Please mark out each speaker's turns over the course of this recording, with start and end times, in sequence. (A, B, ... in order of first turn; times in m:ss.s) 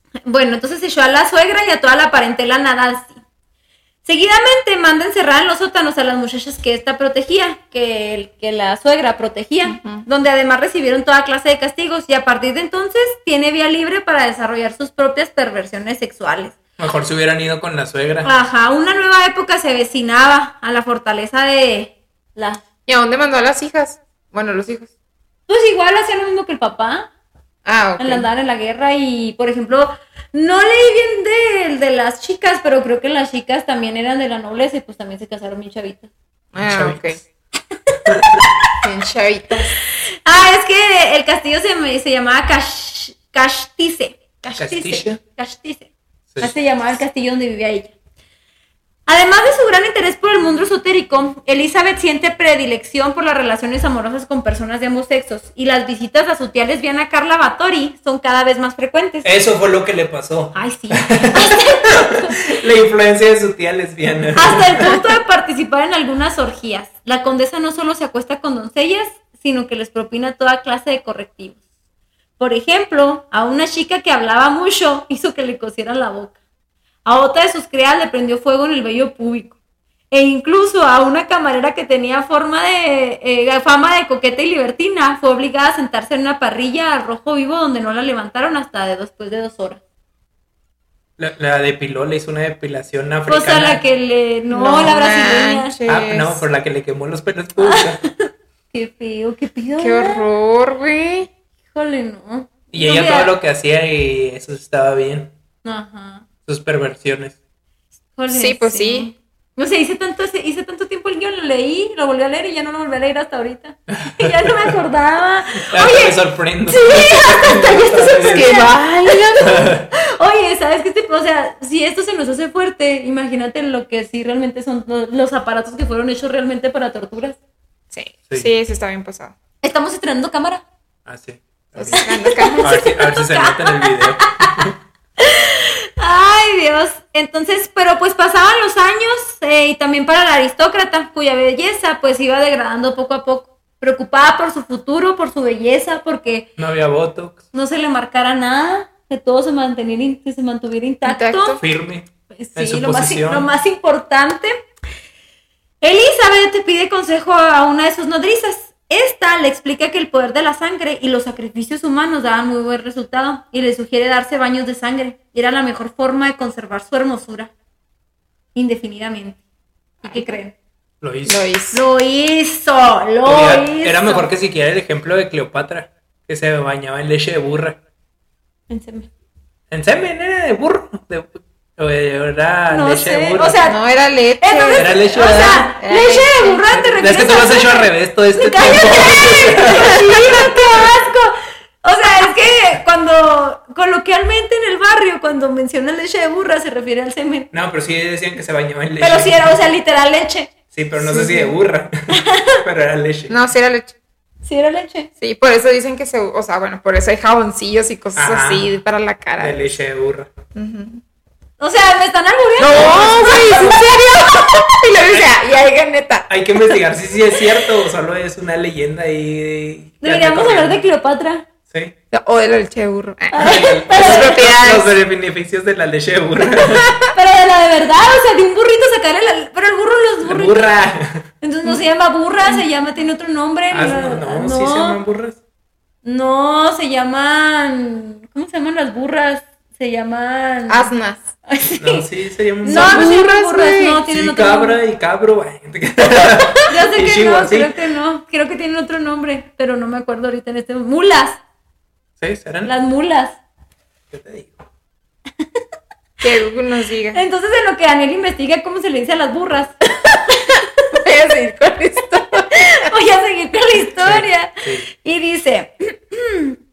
0:00.3-0:03.2 A
0:04.0-0:16.6 A
0:09.6-0:10.1 B
0:16.8-0:18.3 C
0:18.2-0:22.6 A
0:22.9-0:24.9 B
0:25.5-0:27.1 A
0:27.6-0:28.3 B
0:28.0-0:36.1 A
0:36.5-0:37.2 B
0:36.6-0:37.2 C
0:38.1-0:38.5 C
0:38.8-0:39.8 B
0:40.3-0:47.9 A
0:44.6-0:45.2 C
0:49.1-0:59.3 A
0:59.2-1:05.0 C
1:00.6-1:02.4 A
1:04.4-1:11.6 A
1:12.4-1:16.4 A
1:17.0-1:19.6 A
1:20.1-1:29.8 A
1:31.2-1:33.8 C
1:33.3-1:35.8 A
1:34.5-1:36.4 B
1:35.9-1:38.0 C
1:37.6-1:40.2 A
1:39.8-1:41.3 B
1:41.7-1:43.3 A
1:42.7-1:45.3 C
1:45.6-1:46.2 A
1:46.5-1:47.4 C
1:48.2-1:56.2 A
1:48.3-1:49.1 B
1:53.9-1:54.8 C
1:55.6-1:58.7 C
1:56.7-2:07.4 A
1:56.7-1:59.7 B
1:59.4-1:59.9 C
2:07.9-2:09.4 B
2:09.6-2:10.6 A
2:11.1-2:12.0 C
2:11.8-2:12.8 B
2:11.9-2:26.5 A
2:12.6-2:14.8 C
2:26.6-2:27.4 C
2:27.5-2:31.6 A
2:31.0-2:31.6 B
2:31.6-2:33.5 C
2:32.4-2:34.6 A
2:35.8-2:47.5 A
2:48.6-2:49.4 A
2:50.0-2:50.6 A
2:50.0-2:50.3 B
2:51.0-2:51.5 C
2:51.3-2:51.8 B
2:51.7-2:54.3 A
2:53.2-2:57.8 C
2:58.7-2:59.1 A
2:59.7-3:03.6 C
3:02.7-3:03.8 A
3:03.6-3:06.6 B
3:04.4-3:17.5 A
3:04.7-3:05.7 C
3:06.7-3:10.8 C
3:09.9-3:10.3 B
3:17.5-3:19.6 C
3:19.0-3:20.5 A
3:20.7-3:23.4 C
3:21.0-3:21.5 B
3:22.1-3:22.6 A
3:23.3-3:23.9 B
3:24.4-3:25.1 A
3:25.2-3:29.7 B
3:28.2-3:28.7 C
3:29.4-3:30.3 C
3:30.6-3:31.0 B
3:31.6-3:34.1 A
3:32.6-3:36.3 B
3:35.0-3:35.3 C
3:36.3-3:40.8 C
3:40.0-3:41.5 A
3:41.7-3:41.9 C
3:42.1-3:44.9 B
3:43.3-3:44.4 A
3:43.4-3:47.0 C
3:46.5-3:47.1 B
3:47.1-3:50.6 A
3:50.2-3:51.3 C
3:51.4-3:55.0 A
3:53.7-3:55.4 C
3:56.0-4:00.9 A
4:00.7-4:01.2 B
4:01.5-4:02.0 A
4:01.8-4:03.2 C
4:02.6-4:04.8 A
4:02.7-4:04.0 B
4:04.1-4:07.7 C
4:06.7-4:11.4 A
4:12.2-4:12.7 C
4:12.6-4:13.4 A
4:14.1-4:14.6 C
4:16.2-4:17.2 B
4:17.1-4:19.7 A
4:20.4-4:20.6 A
4:20.6-4:22.9 B
4:22.6-4:26.6 A
4:24.0-4:24.9 C